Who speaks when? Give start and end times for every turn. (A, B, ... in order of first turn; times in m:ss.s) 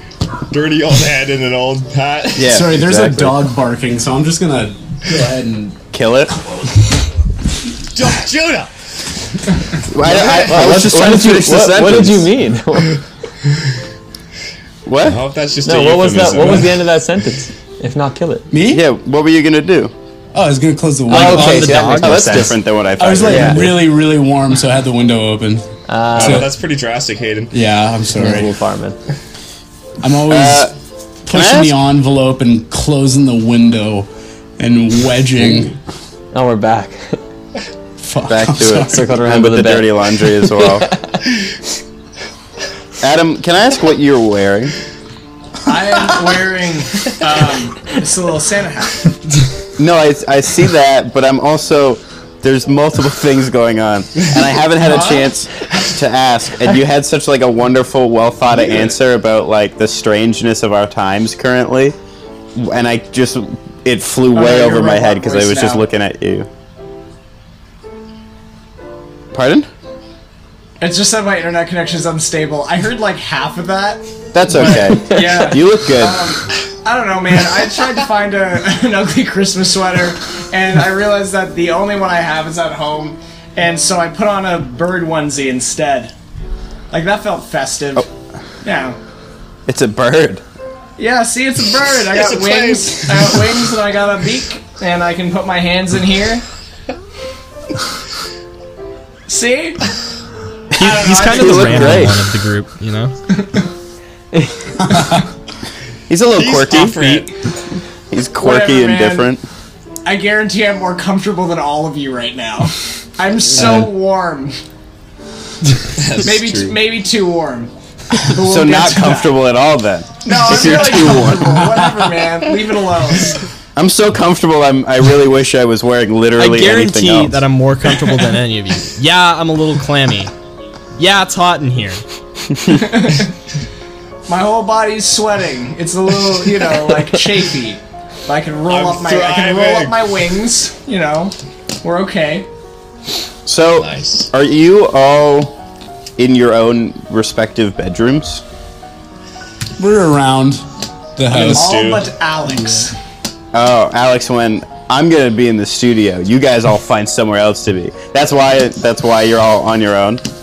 0:00.5-0:02.8 A
0:02.4-0:03.3 B
0:02.4-0:05.8 C
0:05.9-0:06.3 B
0:07.9-0:08.7 A
0:09.9-0:12.3 B
0:10.1-0:12.9 D
0:14.8-0:15.2 B
0:15.0-0:16.8 A
0:15.6-0:18.5 D
0:18.5-0:18.8 C
0:18.7-0:19.9 B
0:20.3-0:21.8 C
0:21.1-0:22.5 E
0:21.1-0:22.6 D
0:21.9-0:24.0 B
0:23.0-0:26.5 C
0:23.2-0:23.6 D
0:25.9-0:26.4 D
0:26.1-0:27.5 A
0:27.5-0:28.5 C
0:28.1-0:29.0 D
0:30.0-0:30.7 C
0:30.3-0:30.7 B
0:31.2-0:35.7 C
0:31.3-0:31.8 B
0:36.3-0:37.2 D
0:38.0-0:39.1 C
0:38.2-0:40.9 B
0:38.7-0:39.9 D
0:43.0-0:44.7 B
0:45.6-0:49.1 F
0:49.8-1:02.0 B
0:54.8-0:55.3 F
1:02.6-1:06.5 B
1:04.3-1:05.8 F
1:09.3-1:09.7 B
1:10.8-1:26.1 F
1:14.3-1:16.4 B
1:26.9-1:28.1 F
1:28.6-1:29.0 F
1:29.7-1:30.4 B
1:31.0-1:36.4 F
1:32.1-1:33.7 A
1:39.3-1:39.8 F
1:40.7-1:42.1 F
1:40.8-1:42.2 B
1:40.8-1:43.1 E
1:44.8-1:45.2 C
1:46.1-1:47.2 B
1:46.3-1:47.3 A
1:48.1-1:49.4 B
1:48.4-1:49.3 F
1:50.0-1:54.6 F
1:56.0-1:56.8 A
1:56.2-1:57.7 F
1:58.2-1:59.4 F
1:58.4-2:01.7 B
2:00.2-2:03.4 F
2:01.7-2:02.1 C
2:03.8-2:07.4 B
2:06.4-2:10.3 E
2:11.0-2:12.0 E
2:12.6-2:13.3 F
2:14.3-2:22.5 F
2:18.7-2:20.1 A
2:23.4-2:25.5 B
2:23.8-2:24.3 A
2:26.2-2:28.4 B
2:29.8-2:30.6 C
2:31.2-2:31.8 C
2:31.2-2:32.1 A
2:31.4-2:32.9 F
2:33.5-2:40.2 B